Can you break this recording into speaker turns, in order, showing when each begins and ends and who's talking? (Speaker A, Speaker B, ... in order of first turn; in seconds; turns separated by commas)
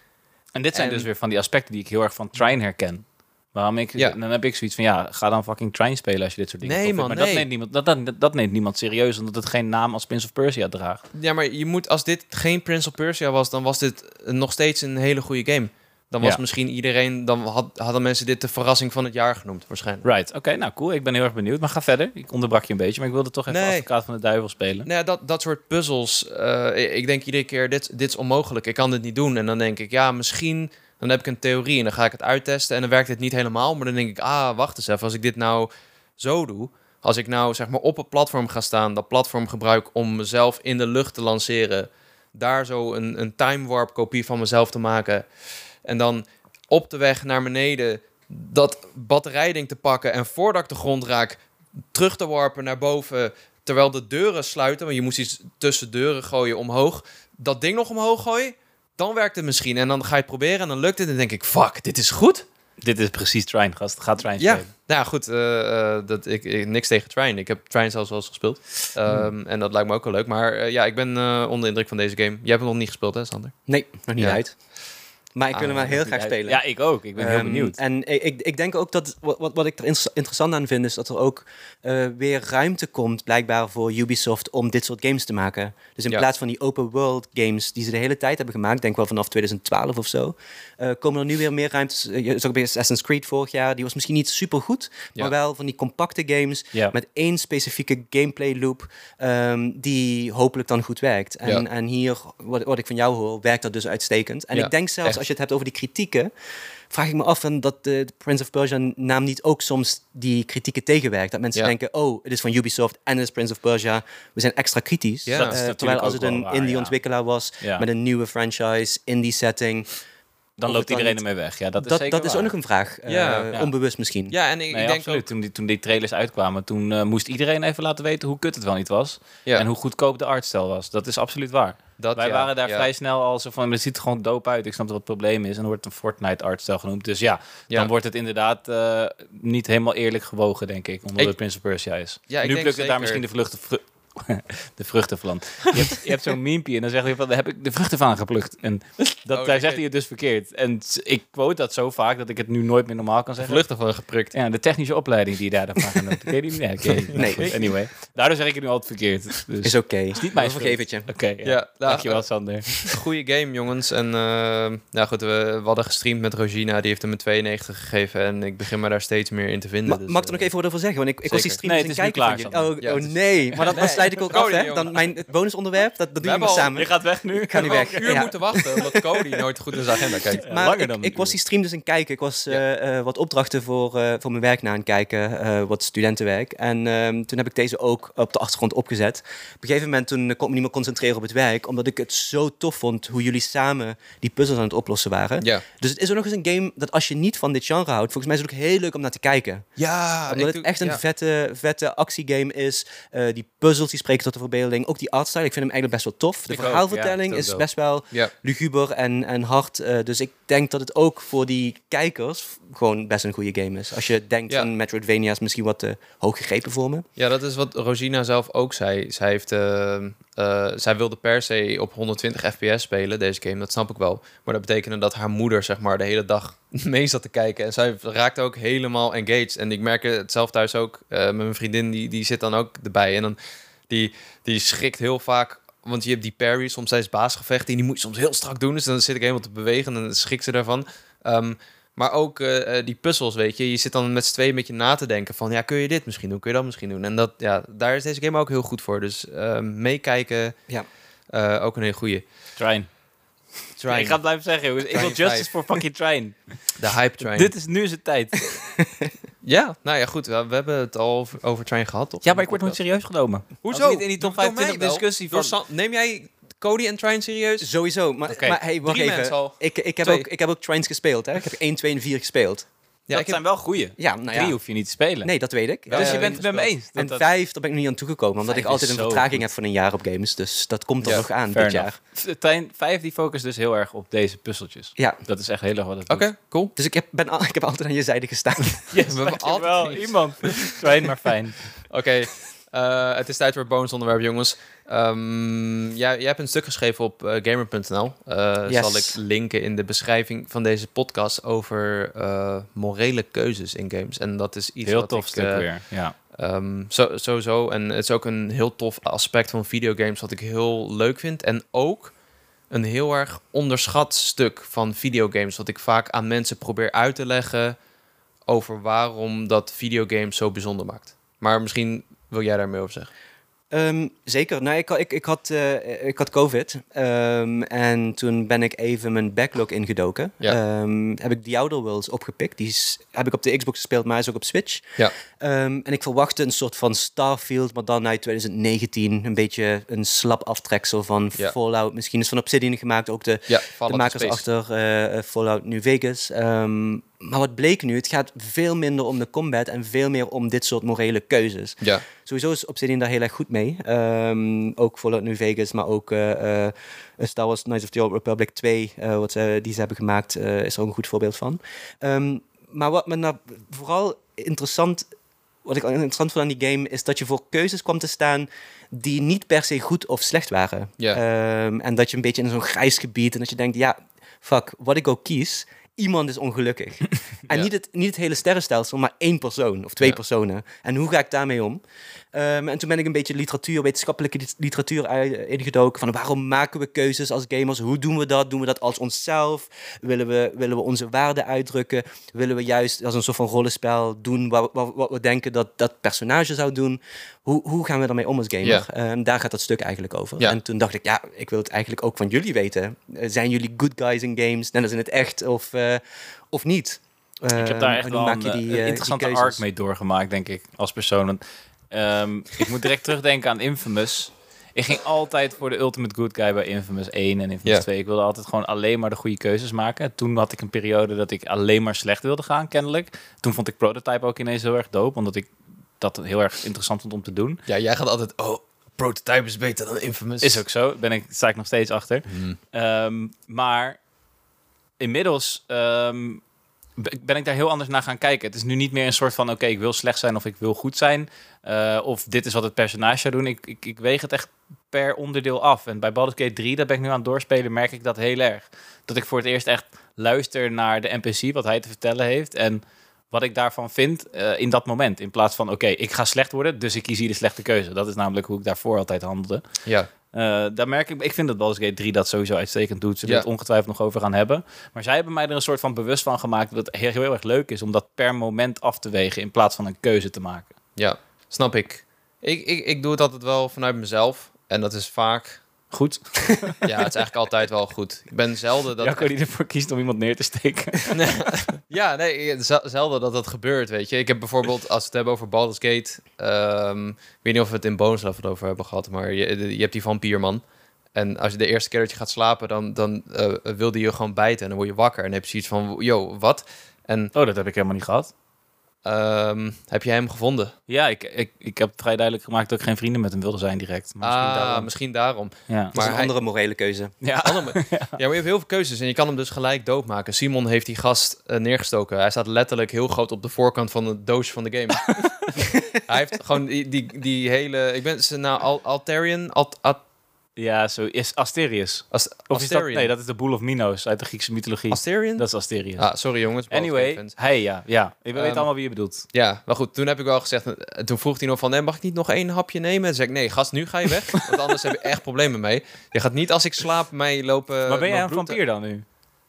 Speaker A: 0.5-11.0, Speaker B: 0.7-1.1, Speaker B: 6.6-7.5, Speaker B: 11.1-20.0, Speaker A: 20.0-24.9, Speaker B: 23.5-23.9, Speaker B: 24.9-45.2, Speaker B: 45.9-51.4, Speaker B: 51.9-62.4, Speaker A: 62.8-64.7, Speaker B: 64.4-73.5, Speaker C: 73.7-74.6, Speaker B: 74.1-74.4, Speaker C: 75.3-106.3, Speaker A: 75.5-77.8, Speaker B: 104.5-105.2, Speaker C: 106.9-119.9, Speaker B: 115.2-115.6, Speaker A: 115.3-117.0, Speaker A: 117.6-117.9, Speaker A: 120.6-122.5, Speaker C: 120.6-121.2, Speaker C: 121.8-124.3, Speaker B: 123.1-123.5, Speaker B: 124.3-125.2, Speaker A: 124.7-153.7, Speaker B: 132.0-132.9, Speaker B: 142.3-143.2, Speaker B: 149.3-149.8, Speaker B: 153.4-154.3, Speaker A: 154.3-162.9, Speaker B: 156.9-157.7, Speaker C: 157.1-157.6, Speaker C: 159.6-161.1, Speaker B: 161.4-170.5, Speaker C: 169.9-179.0, Speaker B: 171.2-171.6, Speaker A: 171.5-172.7, Speaker B: 172.8-174.9, Speaker B: 176.2-176.8, Speaker A: 176.5-178.3, Speaker B: 177.6-180.4, Speaker A: 180.3-181.3, Speaker C: 180.4-199.8, Speaker B: 199.8-201.0, Speaker C: 200.3-217.1, Speaker A: 206.5-207.6, Speaker B: 217.2-233.4, Speaker B: 233.9-250.6, Speaker B: 251.3-252.2, Speaker A: 252.6-252.9, Speaker B: 253.8-254.4, Speaker A: 253.9-256.7, Speaker B: 254.9-255.5, Speaker B: 256.8-257.5, Speaker A: 257.2-258.9, Speaker C: 258.6-259.1, Speaker B: 259.4-262.8, Speaker A: 262.2-265.5, Speaker B: 263.6-267.7, Speaker C: 267.6-272.7, Speaker A: 268.3-268.6, Speaker B: 268.7-270.3, Speaker B: 273.1-273.4, Speaker A: 273.1-277.2, Speaker C: 274.0-281.9, Speaker B: 275.9-276.7, Speaker A: 278.5-279.4, Speaker A: 281.3-286.3, Speaker B: 286.1-286.7, Speaker C: 286.8-289.1, Speaker A: 288.9-291.8, Speaker B: 289.1-290.7, Speaker B: 291.9-305.7, Speaker C: 298.7-299.2, Speaker A: 304.8-306.1, Speaker B: 306.3-312.1, Speaker B: 312.7-317.8, Speaker B: 318.5-323.1, Speaker C: 323.7-365.1, Speaker B: 343.5-344.4, Speaker C: 365.6-381.8, Speaker C: 382.3-409.6, Speaker A: 407.6-427.6, Speaker B: 427.7-430.6, Speaker A: 430.4-434.0, Speaker B: 432.3-432.6, Speaker A: 435.0-436.4, Speaker A: 437.0-459.6, Speaker A: 460.3-470.7, Speaker B: 470.9-475.6, Speaker A: 475.9-476.9, Speaker B: 476.8-479.3, Speaker A: 479.0-481.4, Speaker B: 481.1-497.3, Speaker A: 497.3-498.3, Speaker B: 499.0-500.7, Speaker A: 500.9-504.9, Speaker B: 504.2-506.3, Speaker C: 505.9-507.1, Speaker A: 507.2-508.2, Speaker B: 507.4-520.0, Speaker A: 520.6-529.2, Speaker B: 522.1-523.1, Speaker B: 524.9-527.4, Speaker B: 528.4-528.7, Speaker B: 529.3-538.6, Speaker A: 537.9-539.0